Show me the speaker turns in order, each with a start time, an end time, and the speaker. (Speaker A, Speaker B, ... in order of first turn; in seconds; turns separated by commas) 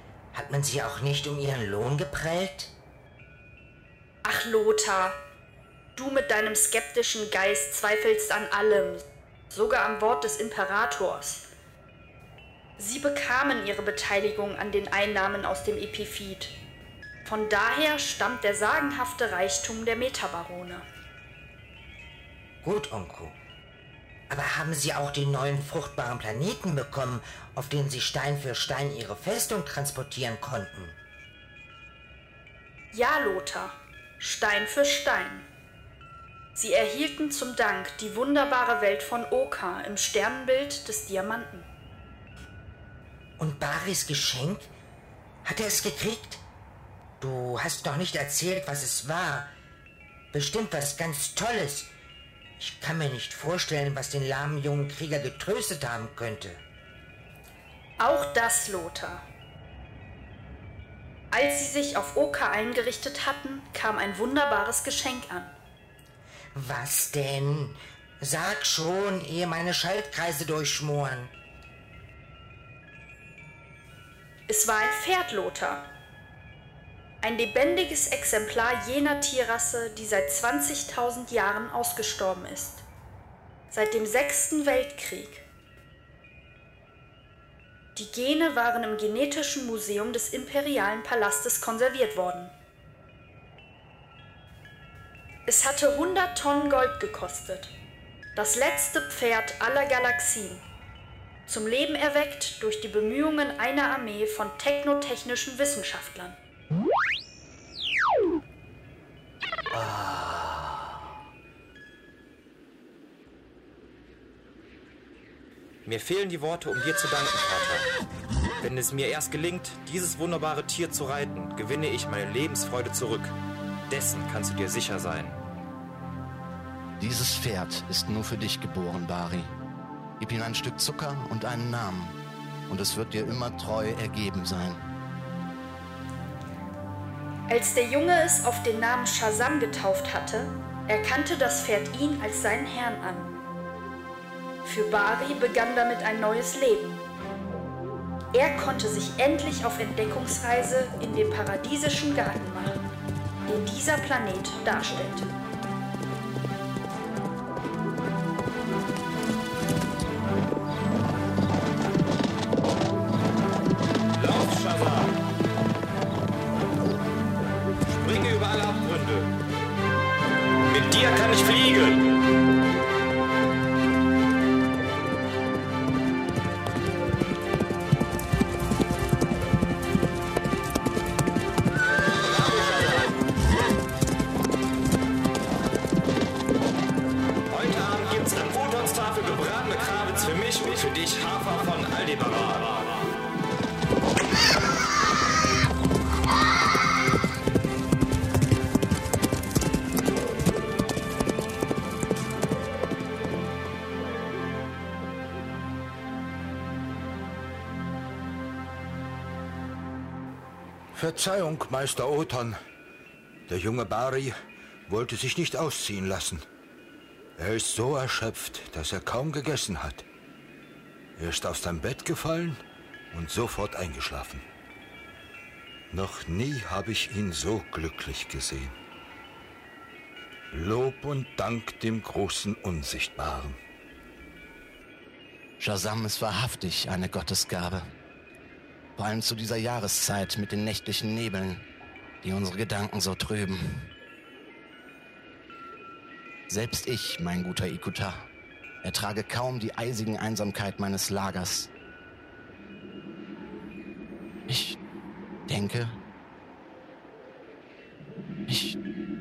Speaker A: 0.3-2.7, Speaker B: 4.2-5.2, Speaker B: 6.0-11.5, Speaker B: 12.8-16.5, Speaker B: 17.2-20.9, Speaker A: 22.6-23.4, Speaker A: 24.3-31.0, Speaker B: 32.9-35.5, Speaker B: 36.5-41.7, Speaker A: 43.4-44.7, Speaker A: 45.5-46.4, Speaker A: 47.2-49.5, Speaker A: 50.3-51.9, Speaker A: 52.6-56.6, Speaker B: 58.0-59.2, Speaker B: 61.3-65.5, Speaker A: 66.5-71.3, Speaker B: 74.5-75.8, Speaker B: 77.2-82.8, Speaker B: 83.7-85.5, Speaker B: 88.0-92.5, Speaker B: 95.5-97.7, Speaker B: 98.3-100.6, Speaker B: 101.5-106.4, Speaker C: 109.7-110.7, Speaker C: 115.8-117.9, Speaker C: 118.6-123.4, Speaker C: 123.9-125.4, Speaker D: 127.0-129.5, Speaker D: 130.2-134.9, Speaker B: 137.5-143.3, Speaker B: 144.6-146.9, Speaker B: 148.3-152.8, Speaker B: 153.4-155.3, Speaker C: 164.1-165.1, Speaker C: 168.0-169.3, Speaker C: 170.6-172.0, Speaker C: 182.4-183.1, Speaker C: 187.5-192.9, Speaker E: 210.9-212.6, Speaker E: 213.5-214.3, Speaker E: 214.9-216.4, Speaker E: 217.4-220.0, Speaker E: 221.2-222.6, Speaker E: 223.1-224.4, Speaker E: 225.9-228.7, Speaker E: 230.5-233.6, Speaker D: 235.6-237.8, Speaker D: 239.0-241.7, Speaker D: 242.2-243.9, Speaker D: 246.5-248.3, Speaker D: 248.8-251.7, Speaker D: 254.5-254.8, Speaker D: 255.5-256.0, Speaker D: 258.5-258.8